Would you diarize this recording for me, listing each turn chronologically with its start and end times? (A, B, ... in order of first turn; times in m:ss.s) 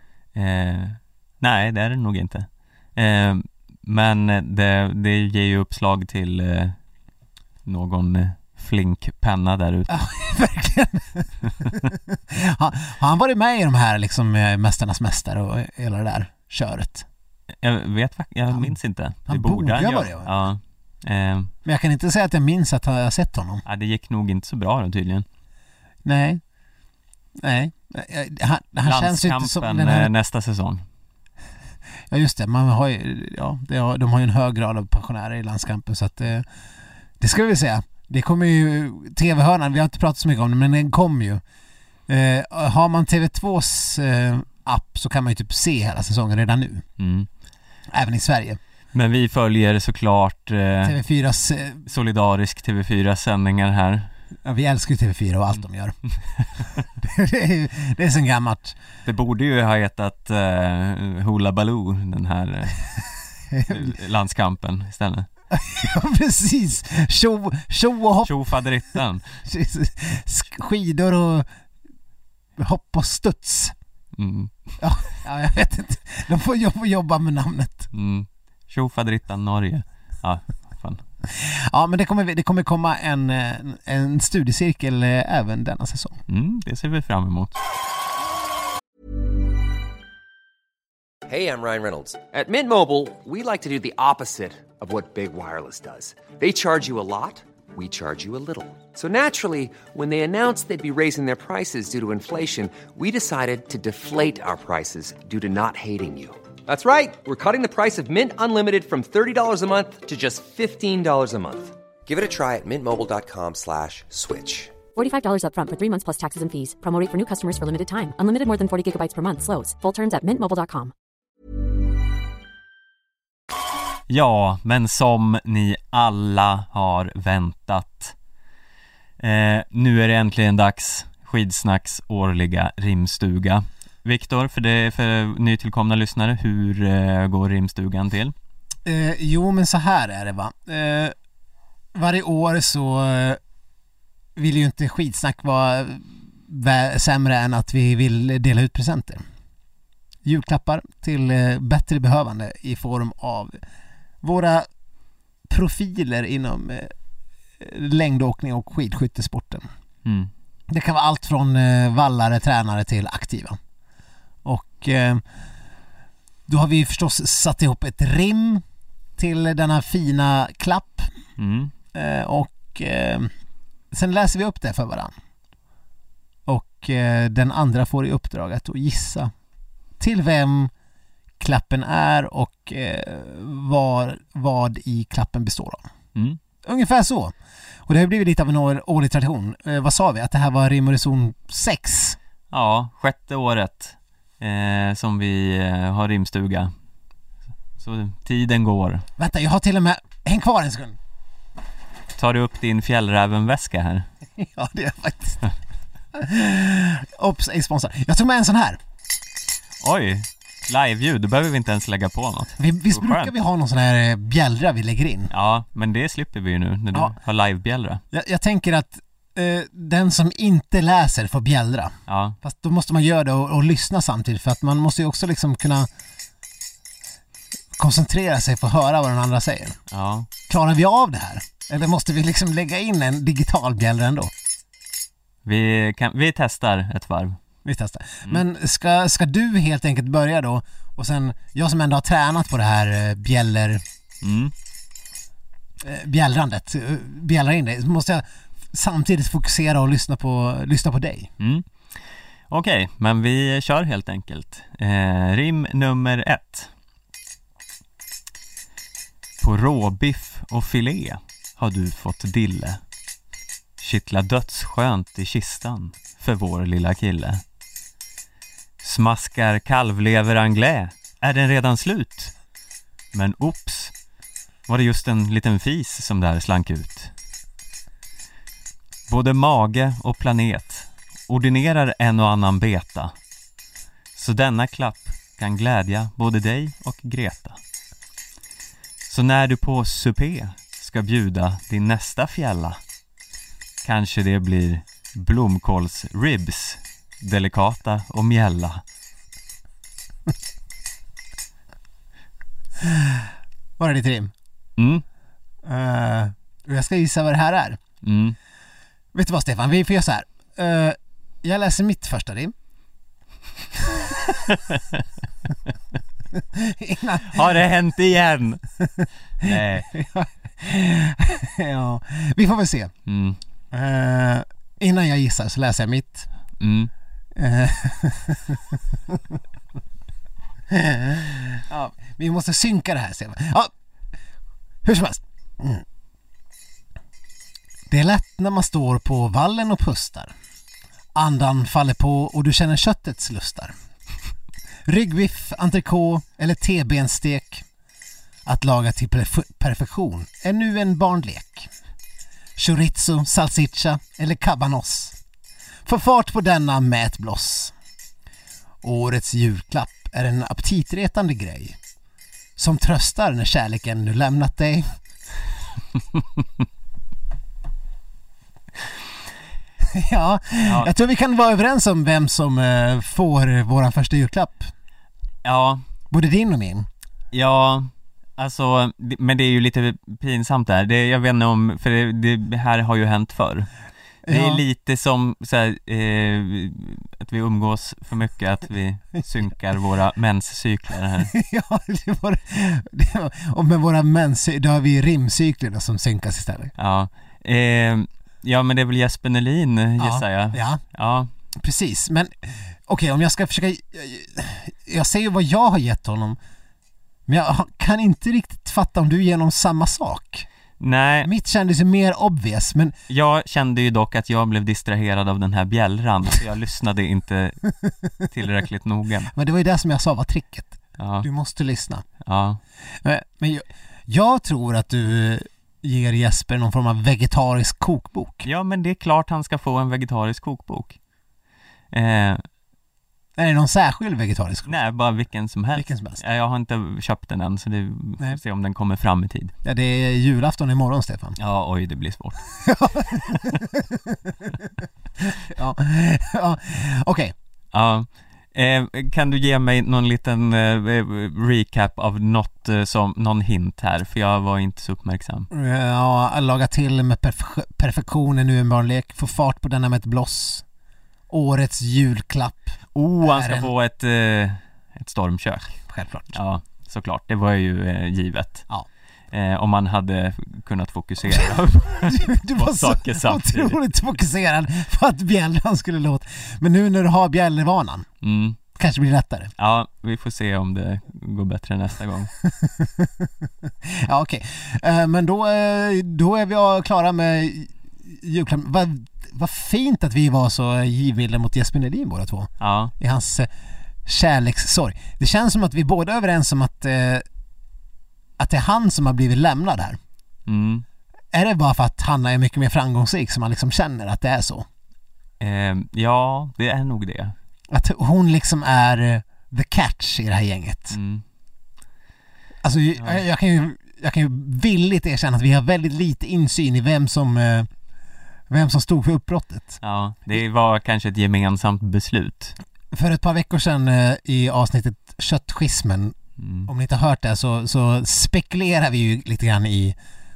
0:00.3-0:06.8 A
0:07.6-0:10.0 A
0:09.9-0:17.0 B
0:17.6-0:21.5 A
0:19.3-0:20.3 B
0:21.6-0:23.6 B
0:23.6-0:25.2 A
0:26.0-0:26.4 B
0:27.4-0:30.1 B
0:28.8-0:30.8 A
0:32.1-0:36.4 B
0:37.2-0:41.4 B
0:42.1-0:46.8 B
0:47.0-0:47.3 A
0:47.9-0:48.6 B
0:48.9-0:51.0 A
0:50.8-0:51.8 B
0:51.8-0:54.1 A
0:54.4-0:56.0 B
0:56.9-0:58.8 B
0:59.0-1:02.8 A
1:03.5-1:03.9 B
1:03.6-1:05.3 A
1:05.5-1:08.4 B
1:08.2-1:09.4 A
1:09.4-1:11.5 B
1:12.6-1:13.7 B
1:14.1-1:14.5 A
1:14.8-1:17.9 B
1:17.9-1:21.0 A
1:21.3-1:26.2 B
1:26.3-1:27.6 A
1:31.3-1:54.7 C
1:55.0-2:00.9 D
2:04.1-2:08.1 A
2:09.2-2:18.3 A
2:18.8-2:21.1 B
2:21.9-2:23.4 B
2:24.4-2:29.2 B
2:30.2-2:33.6 B
2:34.2-2:34.7 B
2:35.5-2:36.9 B
2:37.6-2:39.7 B
2:40.0-2:40.3 A
2:40.7-2:43.6 B
2:44.4-2:45.2 B
2:46.5-2:48.6 B
2:49.2-2:51.1 B
2:51.4-2:51.7 A
2:51.9-2:53.3 B
2:53.9-2:55.1 B
2:56.5-2:59.3 B
3:00.0-3:00.7 B
3:01.4-3:05.8 B
3:06.6-3:07.3 B
3:07.9-3:12.2 B
3:12.5-3:16.7 A
3:17.8-3:19.0 A
3:19.2-3:21.0 B
3:22.1-3:24.0 A
3:24.4-3:25.4 B
3:26.1-3:28.8 B
3:29.8-3:33.3 A
3:32.6-3:35.3 B
3:35.3-3:38.0 A
3:38.1-3:45.9 B
3:42.1-3:42.4 A
3:47.8-3:49.8 B
3:49.9-3:50.3 A
3:50.5-3:54.3 B
3:55.4-3:57.4 A
3:57.6-4:03.8 B
4:04.2-4:04.5 A
4:05.8-4:11.3 B
4:11.4-4:11.7 A
4:12.5-4:16.7 A
4:19.4-4:22.8 A
4:23.8-4:27.4 A
4:28.8-4:32.3 A
4:33.1-4:33.9 A
4:34.7-4:37.1 A
4:39.1-4:43.1 A
4:44.1-4:47.6 A
4:49.0-4:52.8 A
4:53.8-4:58.8 A
5:02.8-5:04.3 B
5:04.8-5:05.0 A
5:05.6-5:07.8 B
5:08.0-5:08.4 A
5:09.1-5:12.5 B
5:13.7-5:14.6 B
5:14.7-5:15.0 A
5:16.3-5:17.6 B
5:17.2-5:18.6 A
5:18.8-5:22.9 B
5:19.4-5:19.9 A
5:23.0-5:23.4 A
5:23.7-5:26.3 B
5:26.6-5:26.9 A
5:27.3-5:29.4 B
5:30.7-5:33.7 B
5:34.8-5:35.8 B
5:37.9-5:40.3 B
5:41.1-5:43.7 B
5:44.8-5:47.6 B
5:48.4-5:51.7 B
5:52.6-5:55.2 B
5:55.8-5:57.7 B
5:58.8-6:01.8 B
6:02.6-6:04.9 B
6:09.8-6:14.7 B
6:10.6-6:10.9 A
6:15.4-6:15.8 A
6:16.1-6:16.9 B
6:17.3-6:23.7 A
6:24.2-6:24.6 B
6:24.3-6:31.3 A
6:31.2-6:36.7 B
6:36.8-6:41.3 A
6:40.0-6:40.8 B
6:41.6-6:46.4 B
6:47.3-6:50.5 B
6:50.8-6:51.3 A
6:51.2-6:53.0 B
6:53.1-6:57.7 A
6:58.2-6:59.3 A
6:59.3-7:02.0 B
7:01.0-7:01.3 A
7:02.2-7:02.6 A
7:03.0-7:08.5 B
7:08.4-7:11.0 A
7:11.9-7:12.4 A
7:13.4-7:14.7 B
7:14.6-7:19.5 A
7:15.8-7:16.2 B
7:19.6-7:21.4 B
7:21.4-7:22.4 A
7:22.6-7:24.7 B
7:23.1-7:23.6 A
7:25.2-7:27.3 B
7:27.7-7:35.5 A
7:35.5-7:40.6 B
7:41.3-7:43.7 B
7:42.9-7:45.8 A
7:45.9-7:46.4 B
7:46.3-7:48.7 A
7:49.3-7:53.8 A
7:51.3-7:58.1 B
7:58.2-7:58.6 A
7:58.7-7:59.5 B
7:59.6-8:02.3 A
8:02.4-8:13.5 B
8:12.6-8:12.9 A
8:14.0-8:17.2 B
8:18.4-8:20.0 B
8:20.5-8:20.8 A
8:21.3-8:24.6 B
8:25.4-8:27.3 A
8:27.7-8:31.0 B
8:30.9-8:31.2 A
8:32.6-8:37.7 B
8:33.0-8:33.2 A
8:38.5-8:39.8 B
8:39.8-8:42.5 A
8:42.9-8:46.1 B
8:46.4-8:46.7 A
8:46.7-8:50.0 B